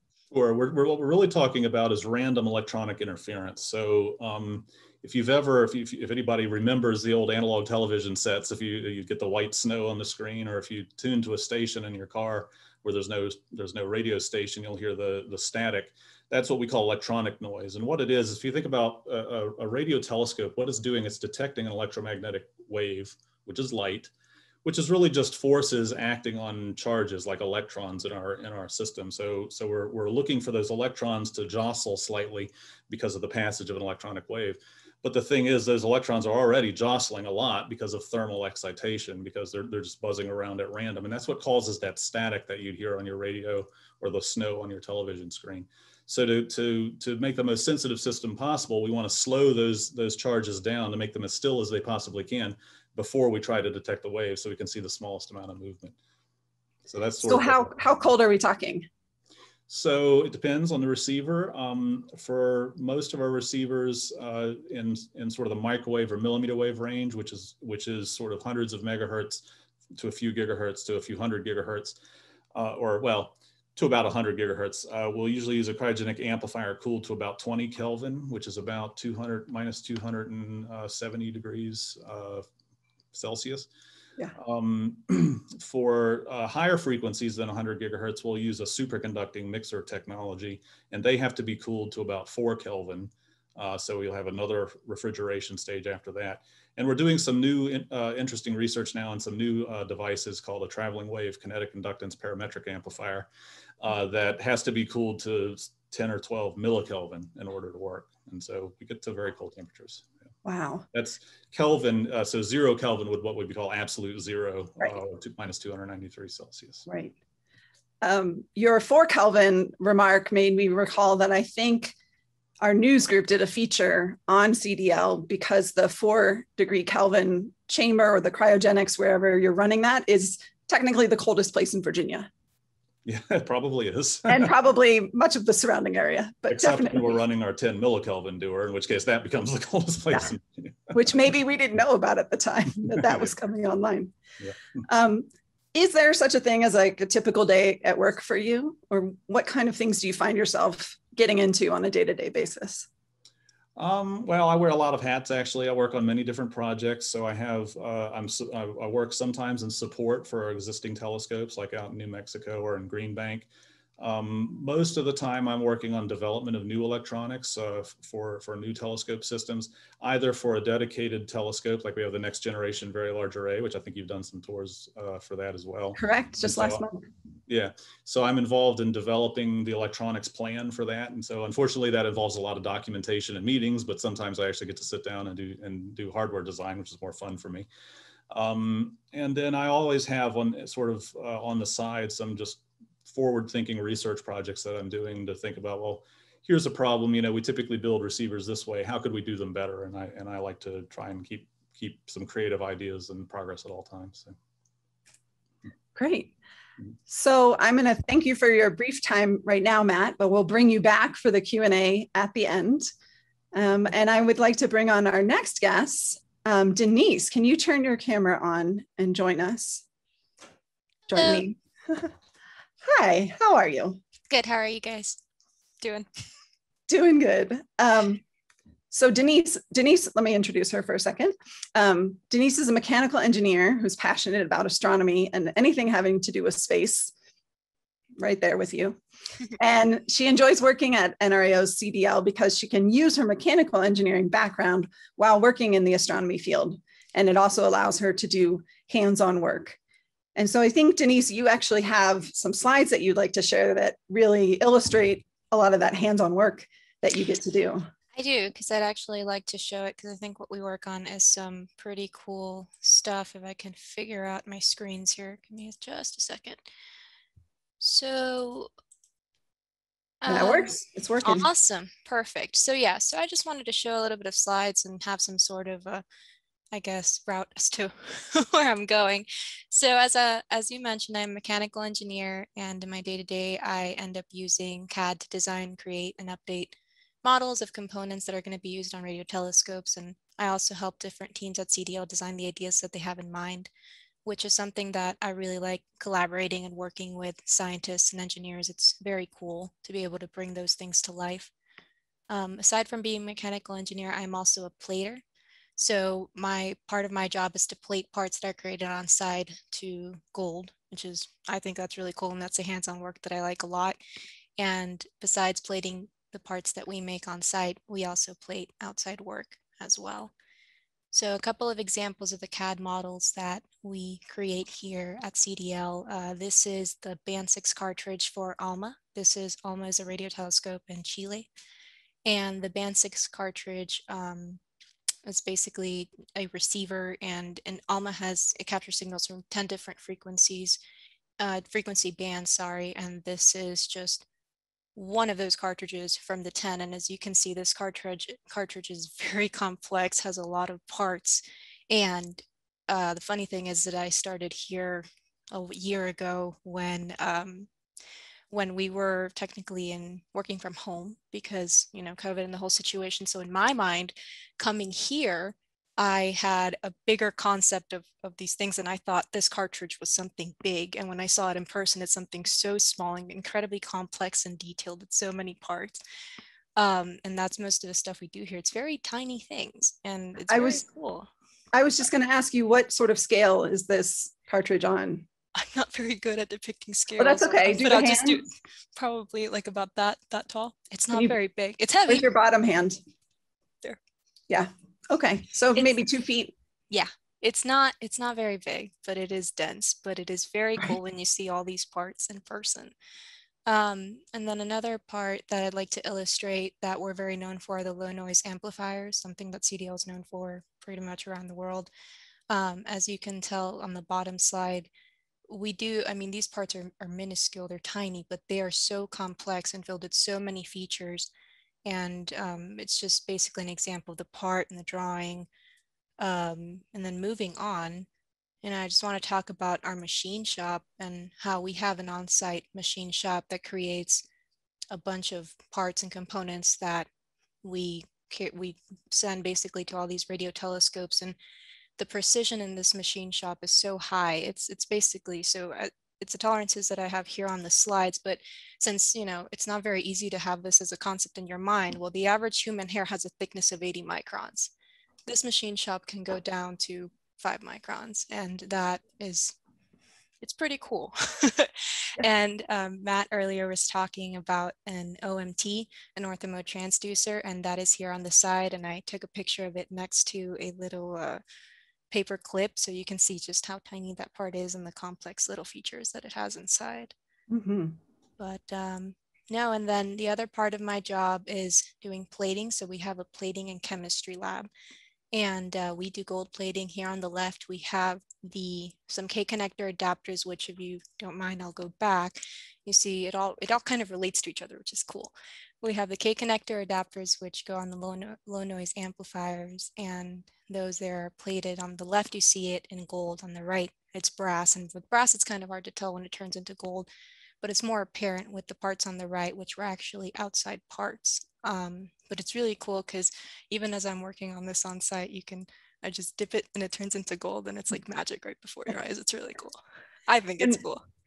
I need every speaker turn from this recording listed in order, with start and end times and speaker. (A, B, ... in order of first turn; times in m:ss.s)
0:00.3-0:24.1 A
0:24.6-0:56.0 A
0:56.9-0:57.8 A
0:57.2-0:58.9 B
0:59.7-1:09.4 A
1:10.0-1:12.0 A
1:12.5-1:22.5 A
1:23.1-1:23.7 A
1:24.4-1:43.3 A
1:43.8-1:50.1 A
1:50.4-1:50.9 B
1:50.9-1:56.9 A
1:56.9-1:57.1 B
1:58.0-2:01.9 B
2:02.6-2:12.3 B
2:13.0-2:14.5 A
2:14.3-2:17.2 B
2:16.5-2:21.0 A
2:20.9-2:24.2 B
2:23.0-2:23.3 A
2:24.9-2:32.9 B
2:33.8-2:56.8 A
2:56.0-2:57.0 B
2:57.5-3:07.7 A
3:08.3-3:24.3 A
3:26.0-3:26.3 B
3:27.1-3:32.9 B
3:33.5-3:39.8 B
3:41.1-3:42.1 B
3:41.1-3:41.5 C
3:42.8-3:44.0 B
3:44.3-3:45.2 C
3:45.8-3:46.1 C
3:46.9-3:48.2 B
3:48.9-3:57.1 B
3:58.2-3:59.0 B
3:59.6-4:09.8 B
4:10.4-4:17.9 B
4:18.2-4:26.6 C
4:27.8-4:28.7 C
4:30.2-4:36.0 C
4:30.3-4:31.5 B
4:36.7-4:53.7 C
4:54.2-5:01.5 C
5:02.3-5:05.2 C
5:05.8-5:14.0 C
5:14.6-5:20.3 C
5:21.1-5:31.5 C
5:32.3-5:34.6 C
5:35.2-5:40.8 C
5:41.4-5:44.3 C
5:45.0-5:57.7 C
5:58.5-6:16.0 C
6:16.8-6:21.3 C
6:20.5-6:20.8 B
6:21.7-6:25.3 B
6:25.6-6:32.3 C
6:27.2-6:28.4 B
6:31.1-6:31.4 B
6:32.1-6:33.0 B
6:34.5-6:36.5 B
6:35.8-6:36.1 C
6:36.9-6:43.0 C
6:43.7-6:51.9 C
6:52.5-6:54.9 C
6:55.5-7:01.3 C
7:01.9-7:05.5 C
7:06.2-7:08.1 C
7:08.6-7:14.2 C
7:14.9-7:17.1 C
7:17.6-7:21.4 C
7:22.0-7:34.7 C
7:35.3-7:39.6 C
7:40.4-7:51.4 C
7:52.1-7:57.1 C
7:57.5-7:58.0 B
7:58.4-8:04.7 C
8:05.3-8:27.1 C
8:27.6-8:41.0 C